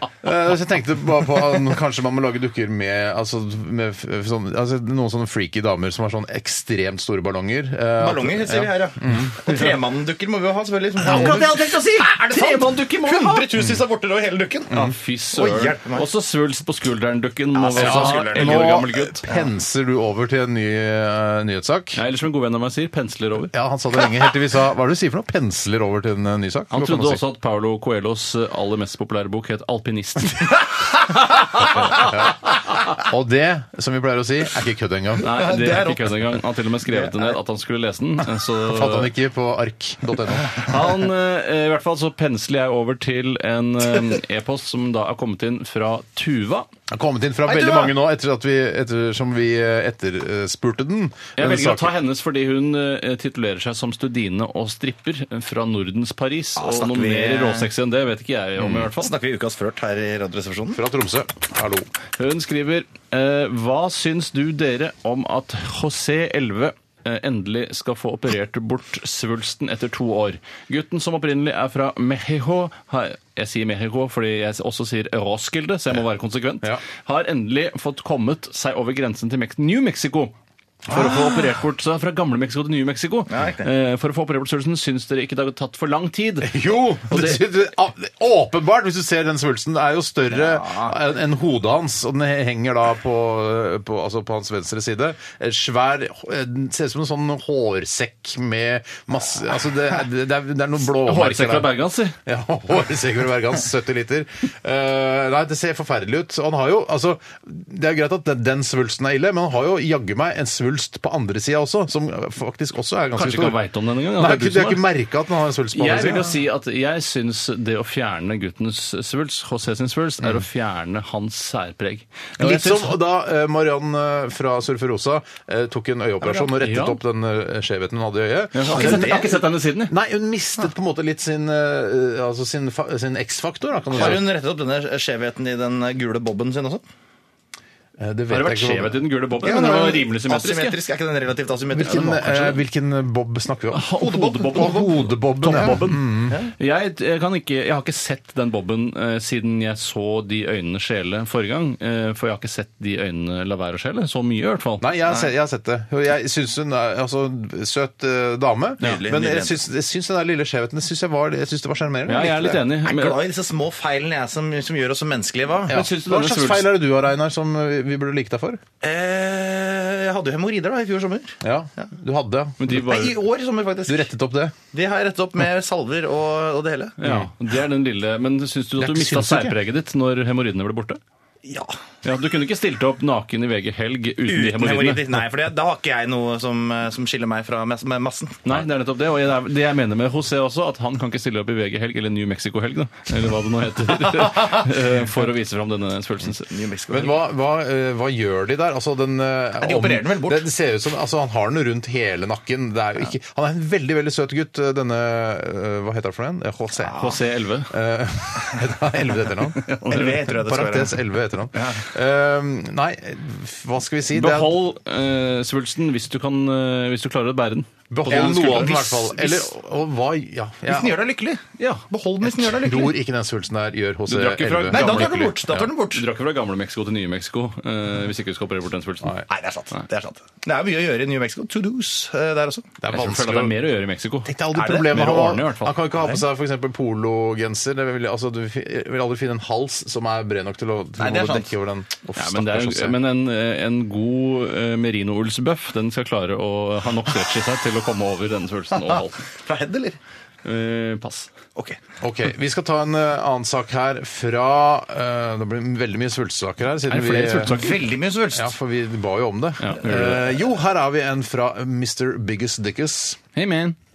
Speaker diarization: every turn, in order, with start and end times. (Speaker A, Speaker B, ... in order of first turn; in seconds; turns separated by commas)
Speaker A: 0.2-9.3, Speaker B: 8.0-16.1, Speaker C: 11.1-13.5, Speaker A: 11.1-11.4, Speaker C: 14.7-19.2, Speaker B: 17.6-19.5, Speaker A: 17.8-22.0, Speaker C: 21.9-23.5, Speaker A: 23.5-27.2, Speaker C: 26.7-30.6, Speaker C: 31.6-32.0, Speaker A: 31.8-32.3, Speaker A: 33.0-35.4, Speaker C: 35.2-39.1, Speaker B: 35.4-36.0, Speaker B: 36.9-37.3, Speaker A: 38.6-40.6, Speaker C: 40.5-46.7, Speaker A: 46.9-52.0, Speaker B: 47.5-47.9, Speaker C: 51.4-59.1, Speaker B: 56.6-57.7, Speaker B: 59.0-60.8, Speaker A: 60.7-61.9, Speaker C: 62.2-80.4, Speaker A: 80.9-81.6, Speaker C: 80.9-87.5, Speaker B: 83.3-83.7, Speaker A: 86.4-113.6, Speaker B: 90.3-91.0, Speaker C: 101.0-102.2, Speaker C: 113.1-114.9, Speaker A: 114.2-116.3, Speaker C: 115.7-123.0, Speaker A: 122.4-134.2, Speaker C: 126.6-127.0, Speaker C: 128.5-129.9, Speaker B: 128.7-129.4, Speaker B: 133.9-136.8, Speaker A: 138.0-139.1, Speaker C: 138.3-140.8, Speaker B: 139.4-142.6, Speaker A: 141.7-146.4, Speaker C: 143.7-154.8, Speaker B: 144.0-144.9, Speaker A: 154.8-162.6, Speaker B: 158.8-159.6, Speaker C: 162.1-163.2, Speaker B: 162.8-165.8, Speaker A: 165.7-168.6, Speaker C: 165.7-166.8, Speaker B: 168.8-171.9, Speaker A: 171.4-173.1, Speaker C: 172.6-173.1, Speaker B: 172.7-174.1, Speaker A: 173.9-174.6, Speaker B: 174.7-177.0, Speaker C: 177.0-181.0, Speaker A: 177.0-177.3, Speaker A: 178.8-179.6, Speaker B: 181.4-181.8, Speaker C: 182.0-185.1, Speaker B: 184.3-188.5, Speaker C: 188.4-196.5, Speaker B: 196.5-197.2, Speaker A: 196.9-207.0, Speaker B: 199.6-200.5, Speaker B: 206.8-207.2, Speaker C: 206.9-207.7, Speaker A: 207.7-209.6, Speaker C: 209.6-210.2, Speaker B: 209.9-211.9, Speaker A: 210.3-214.6, Speaker C: 214.1-218.7, Speaker A: 217.9-221.0, Speaker B: 218.1-219.5, Speaker B: 220.7-223.0, Speaker C: 221.6-221.8, Speaker A: 222.3-225.7, Speaker C: 224.1-229.2, Speaker B: 224.7-226.1, Speaker B: 229.3-232.7, Speaker A: 232.8-233.6, Speaker C: 232.9-235.8, Speaker A: 234.3-243.0, Speaker B: 234.6-235.1, Speaker B: 236.0-236.2, Speaker B: 241.0-241.5, Speaker C: 242.2-249.3, Speaker B: 249.4-250.0, Speaker C: 250.4-251.3, Speaker A: 252.0-257.6, Speaker C: 256.9-257.8, Speaker B: 257.4-258.5, Speaker A: 258.3-263.2, Speaker C: 259.6-260.2, Speaker C: 263.4-263.8